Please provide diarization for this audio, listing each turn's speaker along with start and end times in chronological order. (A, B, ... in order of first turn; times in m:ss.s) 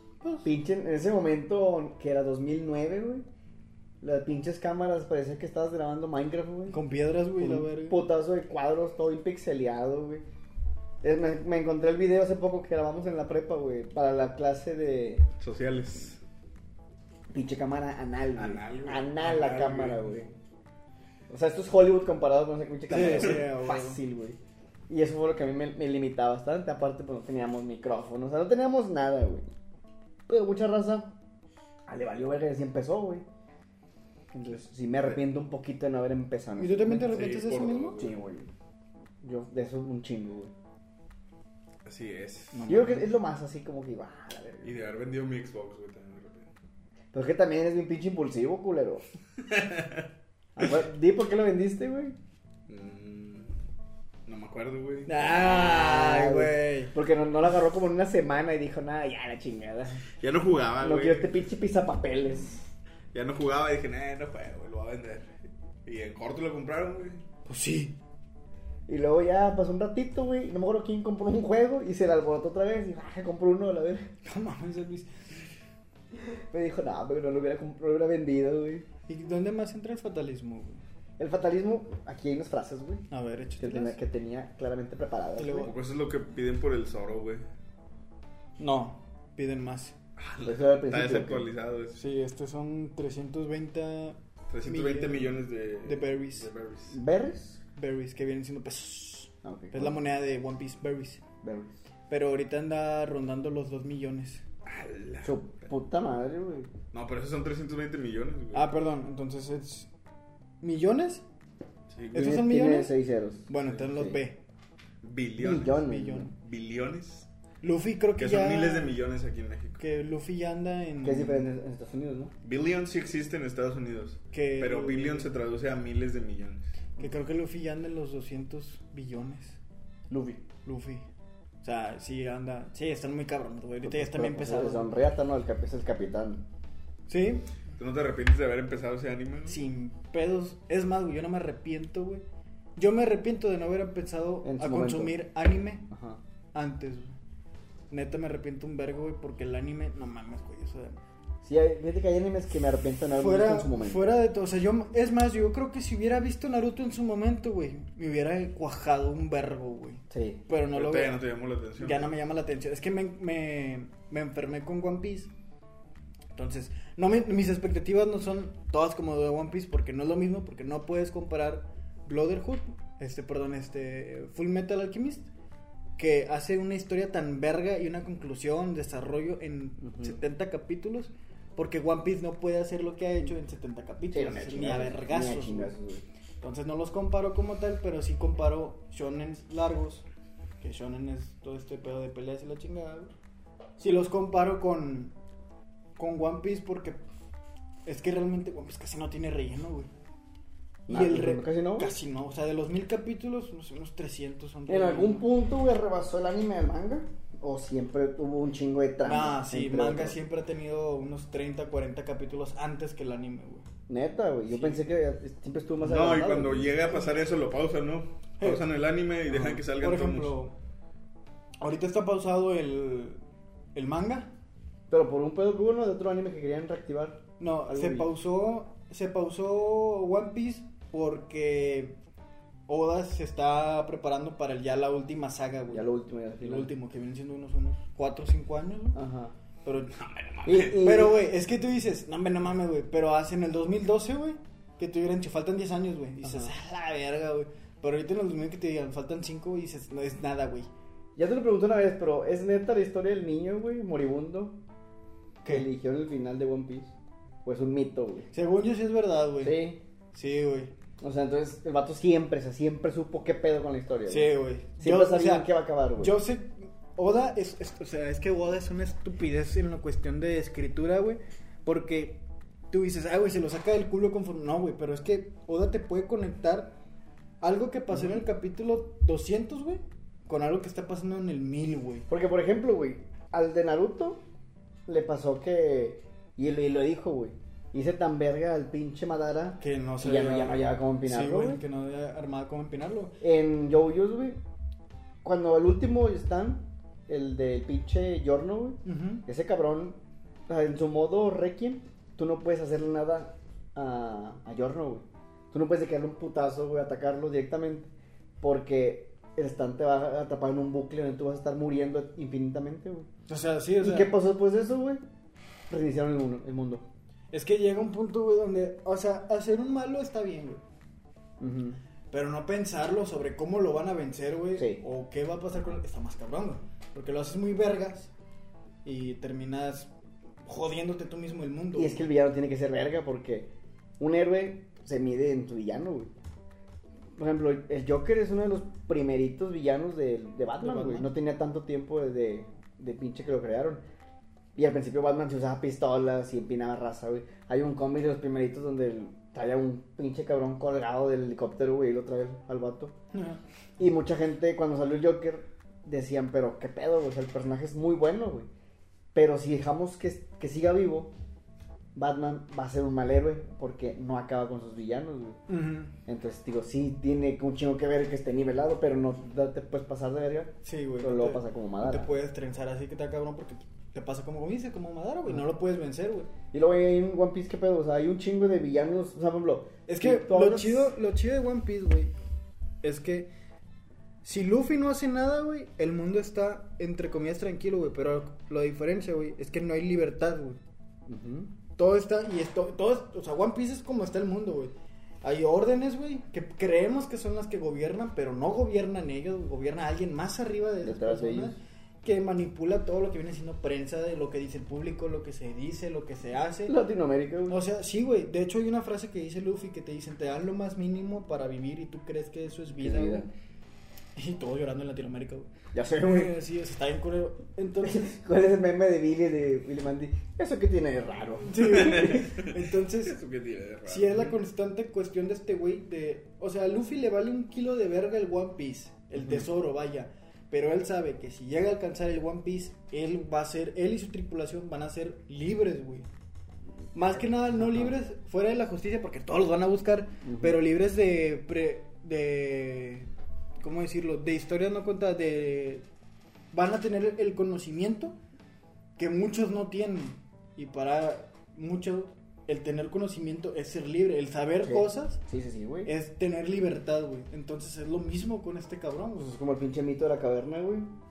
0:00.2-0:00.5 A
0:00.4-0:03.2 B
0:04.0-0:06.8 B
0:06.7-0:08.0 A
0:07.4-0:10.2 B
0:11.0-0:15.3 B
0:15.4-0:16.2 C
0:17.3-0:20.3 B
0:18.4-0:20.3 C
0:21.3-0:29.5 B
0:22.9-0:24.0 A
0:30.3-0:31.1 B
0:31.9-0:33.2 B
0:34.3-0:37.2 B
0:36.6-0:38.0 A
0:37.1-0:38.2 C
0:38.0-0:38.5 B
0:39.2-0:40.5 B
0:41.8-0:42.8 C
0:42.5-0:43.1 A
0:42.7-0:44.8 B
0:44.6-0:46.5 C
0:47.1-0:49.0 B
0:49.5-0:50.1 C
0:50.6-0:52.2 B
0:52.7-0:53.5 C
0:54.3-0:55.2 C
0:55.1-0:56.9 A
0:55.2-1:00.0 B
1:00.2-1:01.3 C
1:00.8-1:02.7 B
1:03.1-1:05.3 C
1:05.9-1:07.2 C
1:07.5-1:08.0 A
1:08.9-1:14.1 B
1:14.2-1:15.1 A
1:16.5-1:18.9 B
1:19.1-1:20.8 A
1:21.2-1:23.0 B
1:23.1-1:24.0 A
1:23.6-1:25.7 B
1:25.4-1:25.7 A
1:25.5-1:27.4 C
1:28.6-1:29.9 A
1:30.2-1:32.0 C
1:30.4-1:31.5 B
1:32.0-1:36.5 A
1:34.5-1:37.0 C
1:36.9-1:37.6 B
1:37.8-1:41.2 A
1:39.4-1:40.0 B
1:41.4-1:41.8 B
1:42.1-1:44.4 A
1:44.7-1:45.4 C
1:45.2-1:46.7 B
1:46.9-1:48.7 C
1:48.5-1:49.9 A
1:50.6-1:51.2 A
1:51.9-1:52.3 C
1:52.1-1:52.9 A
1:52.1-1:54.2 B
1:53.5-1:54.4 A
1:55.0-1:57.3 C
1:55.4-1:56.3 B
1:55.5-1:56.3 A
1:57.6-1:58.9 A
1:58.2-1:59.8 C
1:59.8-2:01.5 A
2:01.0-2:02.3 B
2:02.4-2:06.7 C
2:04.3-2:05.3 A
2:07.0-2:09.6 A
2:10.1-2:10.4 B
2:10.6-2:11.1 A
2:11.6-2:14.9 A
2:13.8-2:16.4 B
2:17.1-2:17.5 A
2:17.8-2:19.6 C
2:19.5-2:22.2 A
2:22.8-2:25.9 A
2:24.4-2:25.2 B
2:25.9-2:26.2 B
2:26.5-2:27.2 A
2:27.9-2:31.0 A
2:31.4-2:34.2 B
2:33.2-2:41.2 A
2:40.1-2:40.4 B
2:40.7-2:42.1 C
2:41.8-2:45.3 A
2:46.4-2:55.3 A
2:56.0-3:05.7 A
2:59.8-3:00.2 B
3:04.1-3:06.0 B
3:06.4-3:10.1 A
3:10.6-3:13.1 A
3:13.8-3:15.1 A
3:16.0-3:17.0 A
3:17.9-3:19.9 A
3:20.9-3:21.9 B
3:20.9-3:25.3 A
3:24.7-3:30.2 B
3:29.0-3:33.7 A
3:33.9-3:36.7 B
3:34.5-3:34.8 A
3:35.8-3:40.4 C
3:38.4-3:38.6 A
3:39.3-3:40.5 A
3:41.6-3:43.2 A
3:43.8-3:44.3 A
3:44.9-3:48.1 B
3:47.4-3:52.0 A
3:52.7-3:59.0 A
3:55.7-3:56.7 B
3:59.0-3:59.3 B
3:59.6-3:59.9 A
3:59.9-4:00.9 C
4:00.4-4:01.3 B
4:00.7-4:10.7 A
4:06.2-4:06.5 B
4:11.2-4:14.6 B
4:15.5-4:16.9 B
4:17.4-4:18.3 B
4:18.3-4:20.7 A
4:19.4-4:19.8 B
4:21.0-4:26.2 B
4:24.1-4:36.8 A
4:37.4-4:42.1 A
4:37.9-4:38.2 B
4:42.1-4:44.2 B
4:44.9-4:51.6 B
4:49.6-4:53.2 A
4:53.2-4:54.4 B
4:55.2-5:07.9 B
4:58.8-4:59.2 A
5:08.4-5:13.1 B
5:13.3-5:14.1 A
5:13.8-5:15.0 B
5:15.7-5:16.9 B
5:17.3-5:20.6 A
5:21.4-5:21.8 B
5:22.1-5:28.1 A
5:24.6-5:24.8 B
5:28.8-5:29.9 A
5:30.5-5:32.0 A
5:31.8-5:36.1 B
5:37.2-5:43.8 B
5:40.6-5:41.1 A
5:44.6-5:53.0 B
5:53.1-5:53.4 A
5:53.8-5:58.5 B
5:59.1-6:01.1 B
6:02.0-6:05.4 B
6:05.5-6:06.0 A
6:06.1-6:12.1 B
6:10.6-6:16.3 A
6:16.5-6:20.9 B
6:19.9-6:22.1 A
6:22.8-6:23.3 A
6:24.2-6:30.6 A
6:31.1-6:31.5 B
6:31.8-6:46.8 A
6:40.8-6:41.6 B
6:46.7-6:47.6 B
6:47.5-6:53.3 A
6:52.8-6:53.3 B
6:54.2-6:58.1 A
6:55.7-6:56.4 B
6:57.8-7:02.2 B
7:01.4-7:03.2 A
7:01.6-7:04.3 C
7:03.9-7:16.1 A
7:16.9-7:23.1 A
7:17.6-7:17.9 B
7:20.2-7:20.6 B
7:23.6-7:25.8 A
7:26.5-7:28.2 A
7:29.0-7:35.2 A
7:34.6-7:35.9 B
7:35.8-7:39.4 A
7:39.2-7:40.9 B